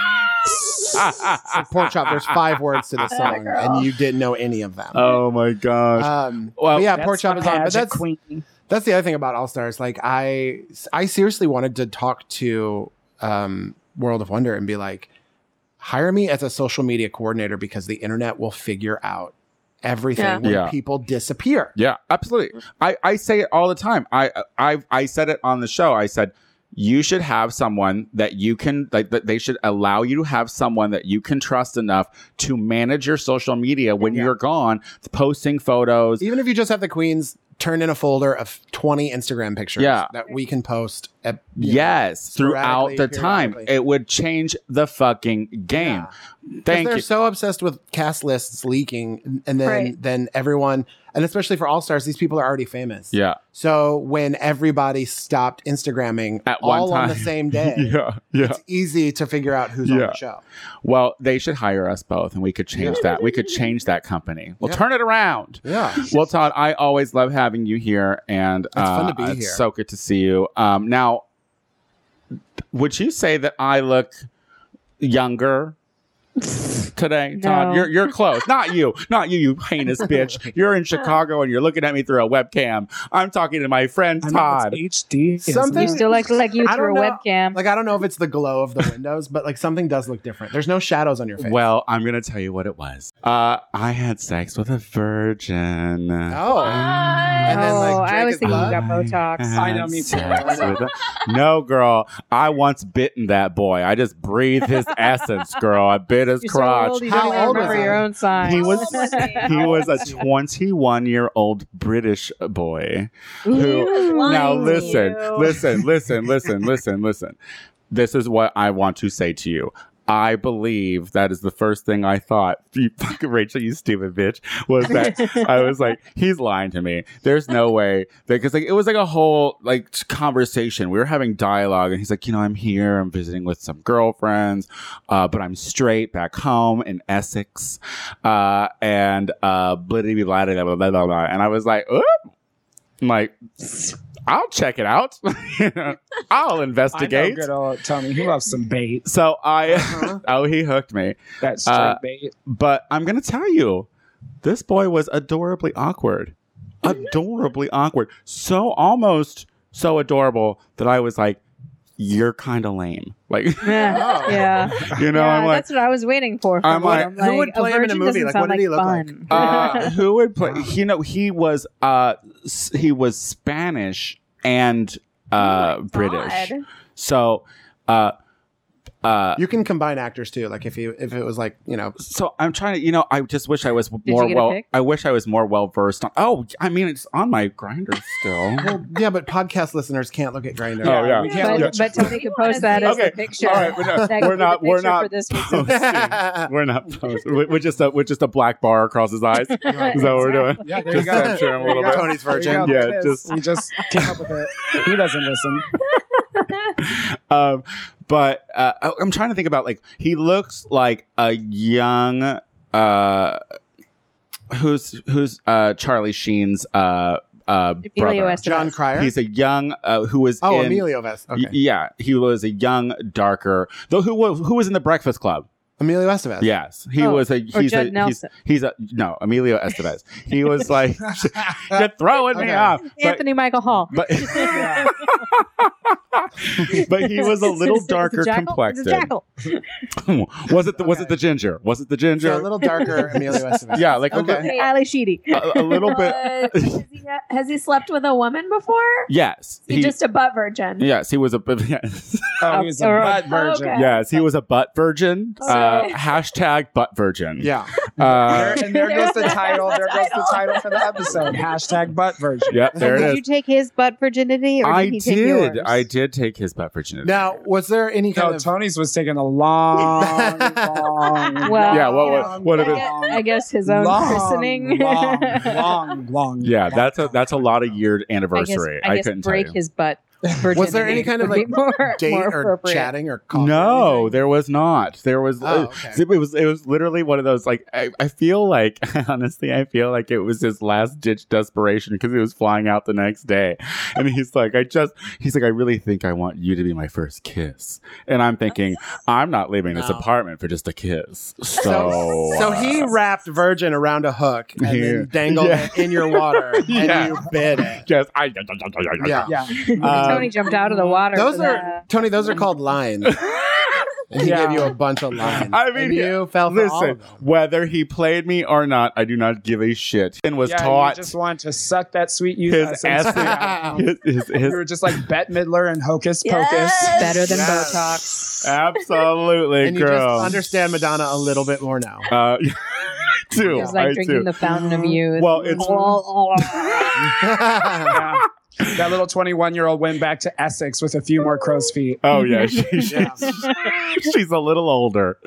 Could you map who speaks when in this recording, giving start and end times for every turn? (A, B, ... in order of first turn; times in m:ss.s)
0:00.9-0:01.7 A
0:01.3-0:05.1 B
0:03.1-0:03.9 C
0:04.9-0:07.4 A
0:06.0-0:08.0 B
0:06.9-0:08.4 D
0:08.6-0:15.1 B
0:15.8-0:21.7 B
0:20.2-0:20.4 C
0:20.4-0:20.7 A
0:21.8-0:36.3 A
0:36.2-0:43.7 B
0:39.8-0:40.1 A
0:41.6-0:46.1 A
0:45.7-0:46.1 B
0:46.6-0:47.0 A
0:46.7-1:00.4 B
0:49.6-0:49.9 C
0:53.1-0:53.4 A
0:56.5-0:58.6 A
0:59.8-1:00.2 A
1:00.8-1:11.2 A
1:02.8-1:03.0 B
1:03.0-1:03.2 C
1:05.6-1:06.2 B
1:08.8-1:09.6 B
1:12.7-1:14.3 A
1:15.0-1:15.8 A
1:16.4-1:24.8 A
1:17.4-1:17.9 E
1:20.1-1:20.5 B
1:24.2-1:26.1 D
1:25.4-1:31.6 B
1:25.8-1:27.6 E
1:31.4-1:57.4 A
1:36.3-1:36.9 B
1:36.5-1:37.6 C
1:37.4-1:38.8 B
1:37.5-1:39.6 E
1:39.6-1:40.5 D
1:40.3-1:40.8 B
1:40.3-1:40.8 C
1:46.4-1:49.5 E
1:47.0-1:48.1 B
1:47.5-1:47.9 C
1:48.4-1:50.2 C
1:49.4-1:50.2 B
1:53.4-1:55.0 E
1:53.5-1:55.7 C
1:57.9-2:22.1 A
2:05.1-2:05.4 E
2:23.0-2:27.5 A
2:26.9-2:29.0 D
2:29.0-2:33.9 A
2:29.7-2:30.2 B
2:31.4-2:32.3 D
2:34.4-2:41.4 A
2:42.0-2:45.7 A
2:43.6-2:49.9 E
2:43.8-2:44.7 B
2:46.6-2:47.1 A
2:46.8-2:49.9 B
2:49.3-2:58.1 A
2:50.4-2:50.7 B
2:55.4-2:56.6 C
2:59.0-2:59.4 A
2:59.4-3:02.0 B
3:02.0-3:08.8 A
3:04.1-3:04.6 E
3:08.6-3:11.3 B
3:10.8-3:12.1 A
3:10.8-3:12.1 D
3:11.2-3:13.5 C
3:11.4-3:15.7 E
3:12.8-3:24.1 A
3:13.7-3:14.2 B
3:15.5-3:16.5 B
3:19.5-3:20.9 E
3:19.7-3:20.2 B
3:20.6-3:25.7 D
3:21.0-3:22.9 B
3:26.8-3:33.4 A
3:34.5-3:45.5 A
3:37.9-3:38.8 E
3:38.4-3:39.1 B
3:40.4-3:41.5 B
3:45.8-3:46.5 B
3:46.4-3:53.2 A
3:47.0-3:48.3 E
3:52.3-3:52.8 B
3:52.8-3:55.2 E
3:53.9-3:59.1 A
3:54.5-3:54.9 D
3:56.6-3:59.6 E
4:00.0-4:04.5 A
4:00.8-4:01.2 B
4:02.2-4:04.5 B
4:04.1-4:04.7 C
4:04.5-4:06.0 E
4:05.3-4:06.8 A
4:05.8-4:09.1 C
4:09.1-4:10.0 A
4:09.7-4:10.9 C
4:10.8-4:12.4 A
4:12.4-4:13.9 D
4:12.5-4:13.3 E
4:13.2-4:14.2 C
4:13.7-4:18.7 A
4:15.4-4:16.0 C
4:15.5-4:15.9 E
4:17.4-4:17.7 B
4:18.0-4:22.8 D
4:18.5-4:21.5 C
4:22.5-4:23.2 A
4:22.8-4:23.1 B
4:22.8-4:25.8 E
4:24.6-4:27.3 A
4:27.0-4:28.5 B
4:28.1-4:37.4 D
4:29.8-4:31.2 B
4:31.4-4:35.7 E
4:31.7-4:32.9 A
4:36.4-4:39.6 A
4:38.4-4:42.9 E
4:40.3-4:41.2 D
4:40.5-4:44.1 B
4:43.3-5:02.9 A
4:45.4-4:46.0 B
4:59.7-5:00.1 B
5:01.6-5:07.8 B
5:04.6-5:10.4 A
5:09.0-5:09.3 B
5:09.3-5:11.5 D
5:09.6-5:11.8 E
5:11.1-5:13.1 B
5:13.0-5:13.9 A
5:14.1-5:17.2 B
5:14.2-5:14.7 D
5:15.2-5:21.1 A
5:20.4-5:27.3 D
5:22.5-5:25.0 A
5:23.0-5:23.8 B
5:26.2-5:27.5 C
5:27.0-5:28.4 E
5:27.2-5:28.0 B
5:28.4-5:30.4 A
5:29.6-5:32.1 B
5:32.1-5:38.8 A
5:33.4-5:33.8 B
5:33.6-5:37.1 E
5:34.6-5:34.9 D
5:37.0-5:38.0 B
5:37.9-5:42.1 D
5:42.0-5:45.2 A
5:42.1-5:43.7 E
5:42.9-5:43.3 B